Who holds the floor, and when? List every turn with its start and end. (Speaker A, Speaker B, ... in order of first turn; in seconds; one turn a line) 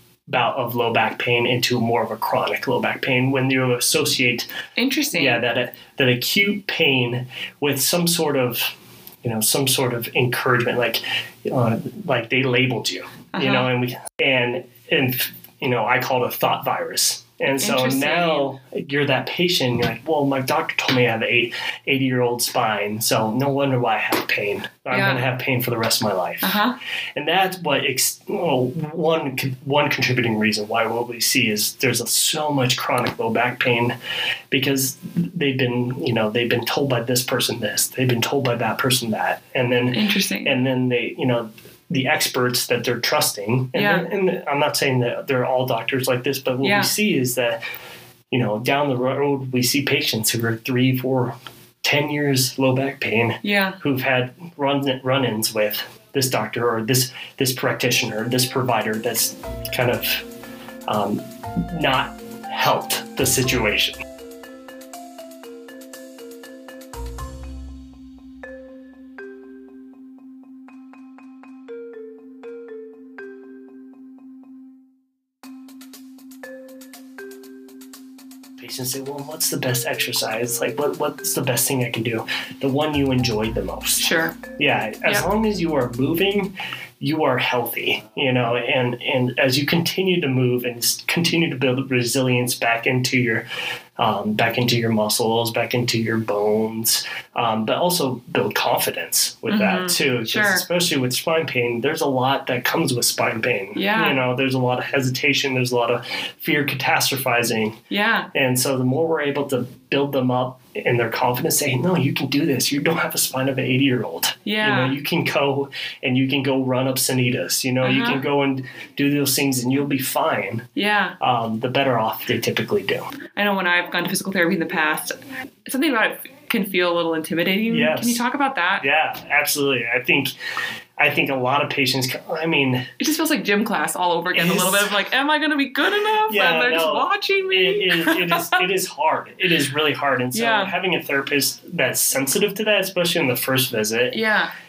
Speaker A: 0.3-4.5
Speaker B: 4.8-5.4
Speaker A: 5.1-8.7
Speaker A: 9.2-26.6
Speaker B: 13.3-13.7
Speaker B: 17.6-18.5
Speaker B: 24.9-25.2
Speaker B: 26.4-26.8
Speaker A: 27.2-34.0
Speaker A: 34.5-47.6
Speaker B: 39.9-40.6
Speaker B: 43.7-44.1
Speaker B: 46.6-46.9
Speaker A: 48.3-60.3
Speaker B: 53.4-53.8
Speaker A: 60.9-64.0
Speaker A: 78.6-93.5
Speaker B: 84.0-84.4
Speaker A: 94.0-107.8
Speaker B: 99.5-100.7
Speaker B: 103.8-104.2
Speaker B: 107.9-108.3
Speaker A: 108.3-120.7
Speaker B: 114.5-115.0
Speaker B: 117.8-118.3
Speaker B: 120.8-121.2
Speaker A: 121.2-123.1
Speaker B: 123.4-128.9
Speaker A: 127.7-128.2
Speaker A: 128.8-130.3
Speaker A: 131.0-132.9
Speaker B: 133.0-138.7
Speaker A: 134.3-134.9
Speaker A: 136.2-144.2
Speaker B: 140.3-140.8
Speaker B: 144.1-144.5